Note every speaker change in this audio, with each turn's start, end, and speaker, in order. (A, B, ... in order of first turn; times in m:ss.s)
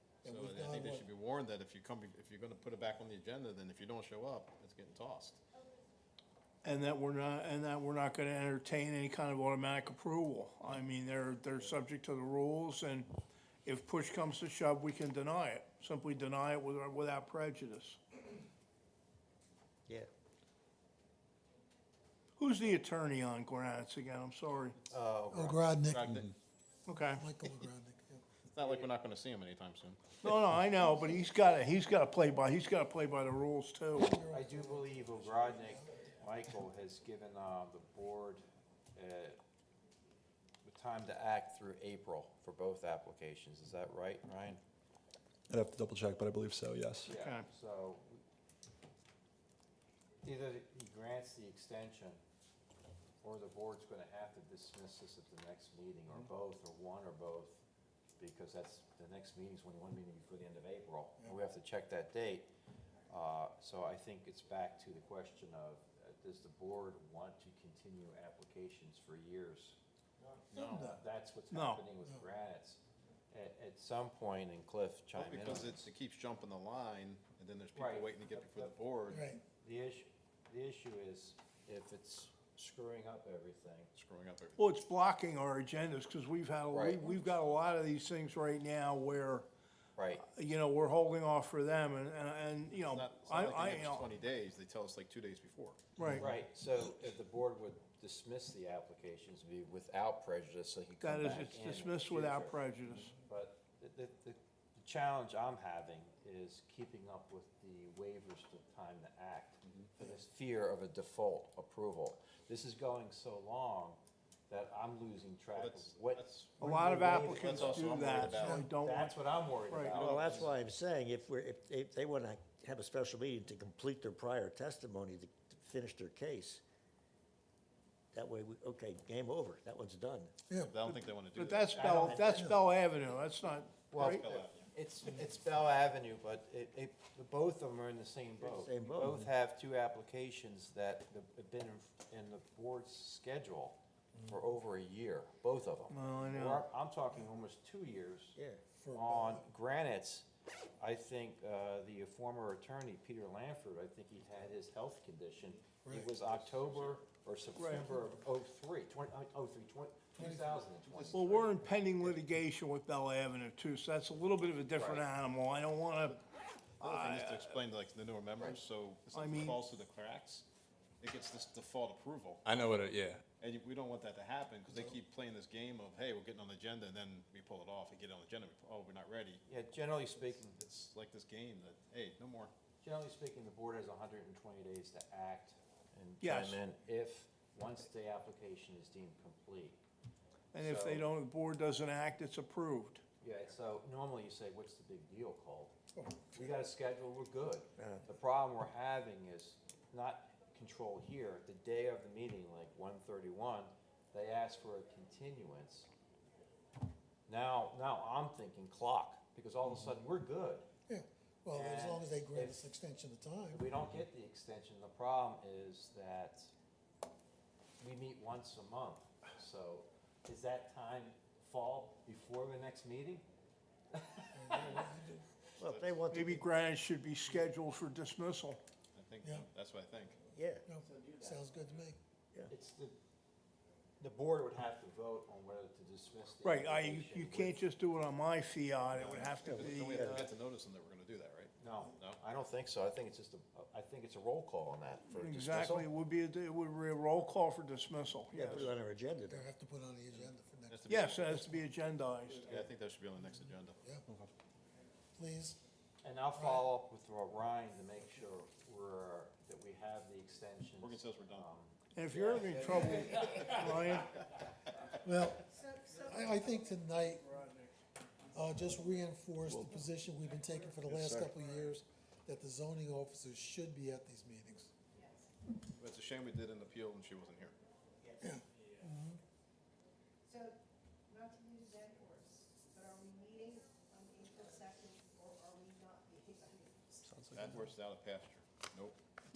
0:00.2-0:01.0 A
0:00.2-0:05.4 B
0:06.6-0:13.1 C
0:13.6-0:18.0 C
0:22.4-0:24.8 C
0:24.9-0:25.7 D
0:25.3-0:26.1 A
0:25.9-0:26.3 B
0:26.9-0:27.3 C
0:27.1-0:28.2 A
0:28.5-0:30.2 B
0:28.6-0:28.9 D
0:30.2-0:34.2 C
0:33.9-0:36.0 A
0:34.2-0:38.4 D
0:39.0-0:39.4 D
0:40.6-0:44.6 D
0:45.5-0:47.1 E
0:47.0-0:48.2 D
0:47.1-0:47.5 C
0:50.2-0:52.2 D
0:53.2-0:57.6 D
0:58.2-1:02.5 D
1:03.1-1:09.8 D
1:10.5-1:15.9 D
1:10.5-1:11.0 A
1:11.5-1:11.8 C
1:15.2-1:19.3 B
1:17.8-1:18.8 D
1:19.1-1:19.4 A
1:19.5-1:23.9 D
1:24.0-1:24.6 B
1:24.6-1:29.5 C
1:26.7-1:27.2 D
1:30.0-1:30.2 D
1:30.2-1:34.1 C
1:32.8-1:35.8 B
1:36.0-1:36.2 C
1:36.2-1:58.0 D
1:41.0-1:43.1 C
1:55.6-1:58.6 B
1:56.6-1:59.9 C
1:58.3-1:58.7 A
1:58.7-2:00.5 D
1:59.9-2:06.6 F
2:00.1-2:00.5 B
2:08.1-2:10.3 F
2:10.7-2:12.4 B
2:10.8-2:14.2 C
2:11.7-2:12.5 D
2:13.9-2:28.4 D
2:14.0-2:14.7 B
2:18.4-2:19.3 F
2:25.9-2:26.6 C
2:28.4-2:28.6 F
2:28.8-2:29.5 A
2:28.9-2:30.3 D
2:30.8-2:41.4 D
2:35.8-2:36.2 A
2:37.6-2:37.9 C
2:40.2-2:41.1 A
2:41.1-2:46.2 C
2:44.8-2:45.0 D
2:46.8-2:47.6 C
2:46.8-2:50.4 B
2:49.1-2:49.6 C
2:51.0-2:52.6 B
2:52.5-2:53.2 E
2:53.3-2:59.4 B
2:59.5-3:00.6 D
3:00.6-3:02.5 B
3:02.8-3:09.8 D
3:06.2-3:06.6 C
3:10.5-3:13.0 C
3:10.6-3:11.1 D
3:13.2-3:15.7 D
3:16.0-3:16.5 A
3:16.3-3:25.9 D
3:17.8-3:18.0 F
3:27.3-3:30.7 D
3:30.9-3:33.7 A
3:31.5-3:32.7 D
3:33.5-3:36.5 D
3:37.8-3:43.2 D
3:43.9-3:45.0 D
3:44.4-3:45.2 A
3:45.6-3:46.0 B
3:45.6-3:46.5 F
3:46.1-3:48.6 C
3:48.9-3:50.2 B
3:50.3-3:50.6 F
3:50.7-3:52.0 A
3:50.9-3:51.4 D
3:52.5-3:53.0 D
3:54.0-3:57.6 D
3:56.4-4:00.1 C
3:58.9-4:02.2 B
3:59.4-4:00.3 F
4:01.6-4:05.9 D
4:05.1-4:08.7 C
4:08.3-4:09.4 F
4:09.3-4:11.6 A
4:10.7-4:11.5 B
4:10.9-4:12.6 C
4:12.4-4:13.8 B
4:13.8-4:14.0 A
4:15.2-4:15.6 A
4:16.0-4:24.3 D
4:16.3-4:16.7 A
4:20.8-4:21.5 B
4:22.0-4:24.1 C
4:25.0-4:27.3 A
4:25.5-4:26.8 G
4:28.3-4:34.7 A
4:31.0-4:31.3 E
4:35.0-4:35.3 G
4:35.8-4:37.5 B
4:38.2-4:39.2 A
4:40.3-4:40.6 G
4:41.1-4:47.3 G
4:47.1-4:47.6 F
4:47.3-4:49.0 B